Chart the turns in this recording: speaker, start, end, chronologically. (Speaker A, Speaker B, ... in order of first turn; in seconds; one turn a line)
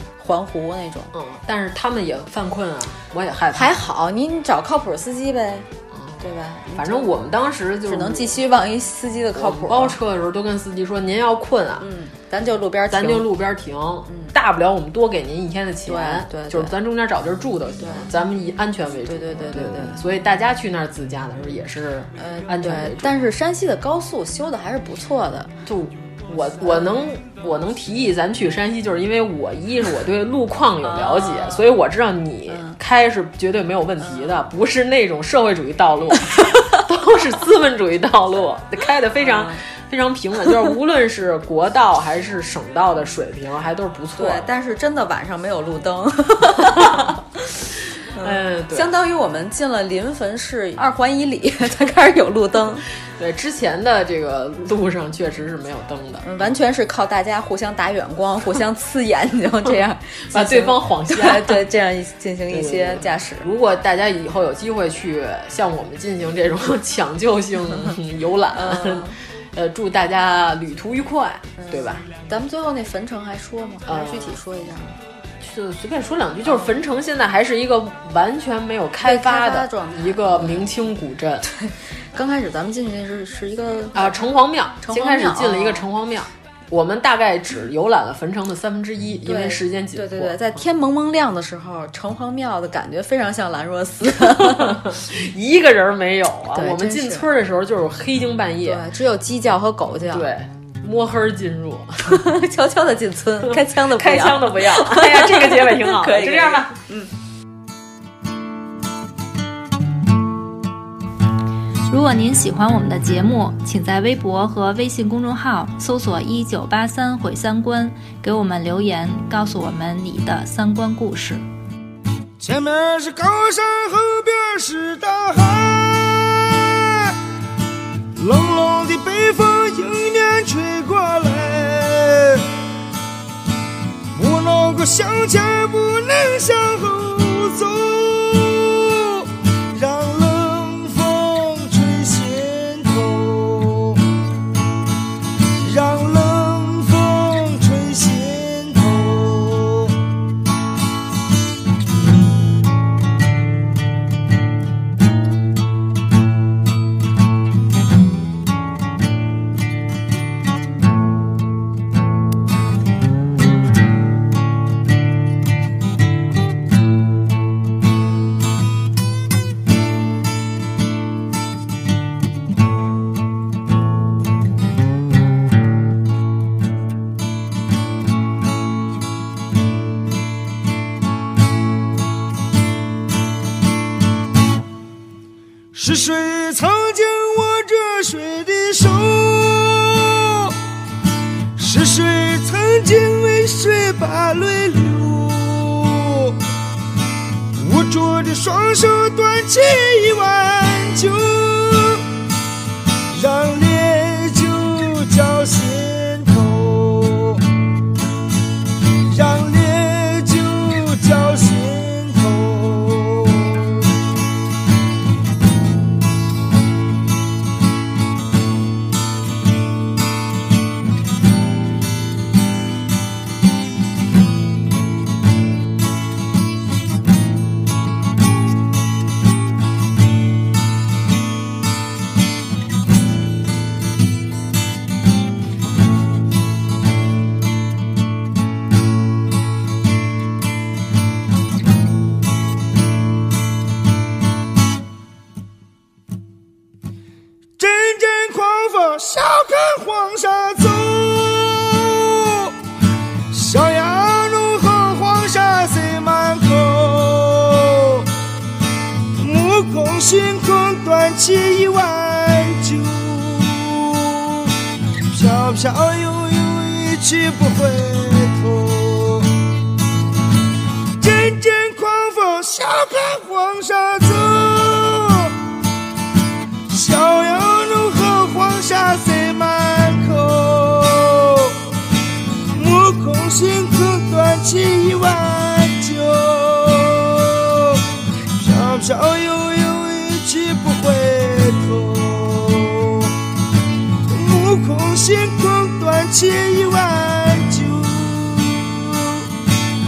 Speaker A: 0.2-1.1
Speaker B: 1.1-3.8
Speaker A: 3.5-5.7
Speaker B: 5.9-6.2
Speaker A: 6.2-7.2
Speaker B: 6.8-8.4
Speaker A: 7.8-10.0
Speaker B: 9.3-11.9
Speaker A: 11.8-13.3
Speaker B: 12.9-23.2
Speaker A: 14.1-14.3
Speaker A: 15.8-16.7
Speaker A: 17.8-18.1
Speaker A: 19.1-20.0
Speaker A: 22.1-25.6
Speaker B: 25.6-44.5
Speaker A: 30.8-31.6
Speaker A: 32.5-32.8
Speaker A: 39.2-39.6
Speaker A: 44.1-47.2
Speaker A: 48.1-52.8
Speaker B: 48.2-48.9
Speaker B: 53.2-56.2
Speaker A: 56.2-63.5
Speaker B: 60.3-61.6
Speaker B: 62.5-72.0
Speaker A: 68.5-69.2
Speaker A: 71.6-75.0
Speaker B: 73.8-74.4
Speaker B: 75.4-81.5
Speaker A: 79.0-80.7
Speaker A: 81.5-84.2
Speaker B: 83.9-90.6
Speaker A: 84.8-85.9
Speaker A: 89.2-94.8
Speaker B: 94.1-98.8
Speaker A: 96.5-97.3
Speaker A: 98.6-100.3
Speaker B: 100.1-102.2
Speaker A: 102.0-107.1
Speaker B: 103.4-106.7
Speaker C: 111.9-121.4
Speaker D: 122.4-127.2
Speaker D: 128.2-132.5
Speaker D: 134.1-144.0
Speaker D: 145.6-149.9
Speaker D: 185.7-190.6
Speaker D: 191.6-196.4
Speaker D: 197.5-202.1
Speaker D: 203.1-207.4
Speaker D: 209.1-213.9
Speaker D: 247.6-252.5
Speaker D: 253.3-258.1
Speaker D: 259.1-264.5
Speaker D: 265.1-269.3
Speaker D: 271.0-275.4
Speaker D: 276.7-281.6
Speaker D: 282.5-287.8
Speaker D: 288.4-293.1
Speaker D: 294.1-299.3